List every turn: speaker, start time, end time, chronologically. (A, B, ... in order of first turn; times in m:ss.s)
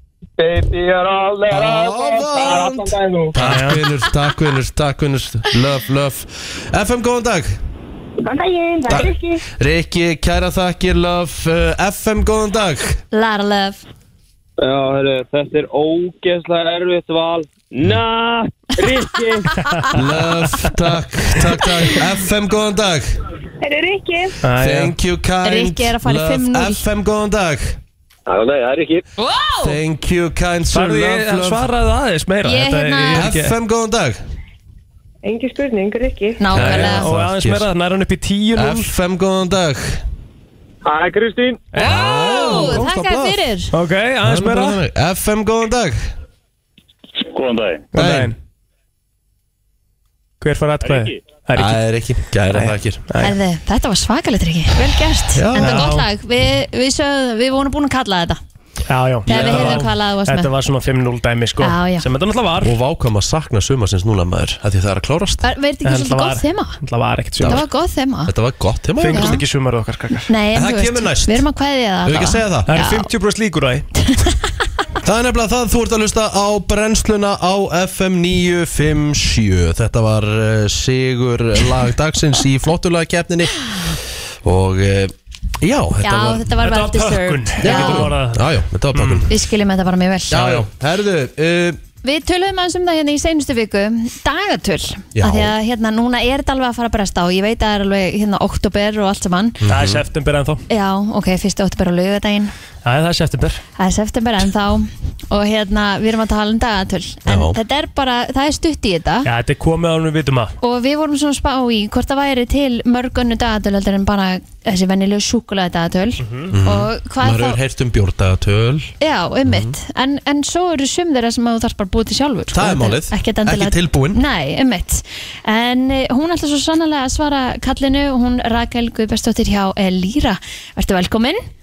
0:00.4-0:03.4 A
0:01.5-0:07.6 B
0:03.4-0:03.8 C
0:08.2-0:09.4 D
0:08.9-0:13.0 B
0:13.1-0:13.8 E
0:14.6-0:19.6 A
0:19.9-0:23.1 B
0:23.6-0:24.4 D
0:24.4-0:25.0 C
0:24.6-0:27.8 B
0:25.4-0:26.8 E
0:28.3-0:29.0 A
0:29.2-0:29.8 E
0:29.6-0:31.7 B
0:30.7-0:33.5 C
0:32.4-0:33.3 E
0:33.1-0:34.2 B
0:35.2-0:36.4 D
0:36.4-0:37.1 E
0:36.5-0:37.7 B
0:36.5-0:38.9 C
0:38.6-0:40.0 B
0:40.8-0:41.7 A
0:41.7-0:42.8 C
0:41.8-0:43.4 B
0:41.8-0:43.7 E
0:43.7-0:44.8 C
0:44.2-0:46.1 B
0:47.9-0:48.3 C
0:47.9-0:48.3 B
0:50.4-0:51.8 C
0:51.5-0:53.0 B
0:52.5-0:53.3 C
0:53.2-0:58.4 E
0:55.3-0:56.0 B
0:55.5-0:56.0 C
0:58.9-1:02.7 C
0:59.2-0:59.9 B
0:59.2-1:00.5 E
1:01.6-1:02.0 E
1:02.6-1:05.5 B
1:05.4-1:06.8 E
1:05.8-1:07.6 C
1:07.4-1:07.6 B
1:07.4-1:08.3 E
1:08.2-1:09.4 B
1:09.0-1:10.3 C
1:09.1-1:09.4 E
1:10.3-1:13.1 E
1:10.5-1:11.4 B
1:12.0-1:12.7 B
1:12.7-1:13.9 C
1:15.0-1:26.5 B
1:26.0-1:28.1 E
1:26.6-1:29.3 C
1:27.6-1:29.3 B
1:29.3-1:30.6 E
1:30.3-1:31.8 B
1:32.0-1:39.6 E
1:35.2-1:35.5 B
1:39.6-1:40.0 B
1:39.7-1:40.6 C
1:40.7-1:42.5 E
1:42.8-1:43.6 C
1:43.8-1:49.3 E
1:47.3-1:47.6 B
1:49.2-1:50.5 C
1:50.6-1:57.6 E
1:56.2-1:56.5 C
1:56.5-1:58.9 B
1:59.0-2:11.4 E
1:59.4-1:59.8 B
2:02.5-2:04.2 B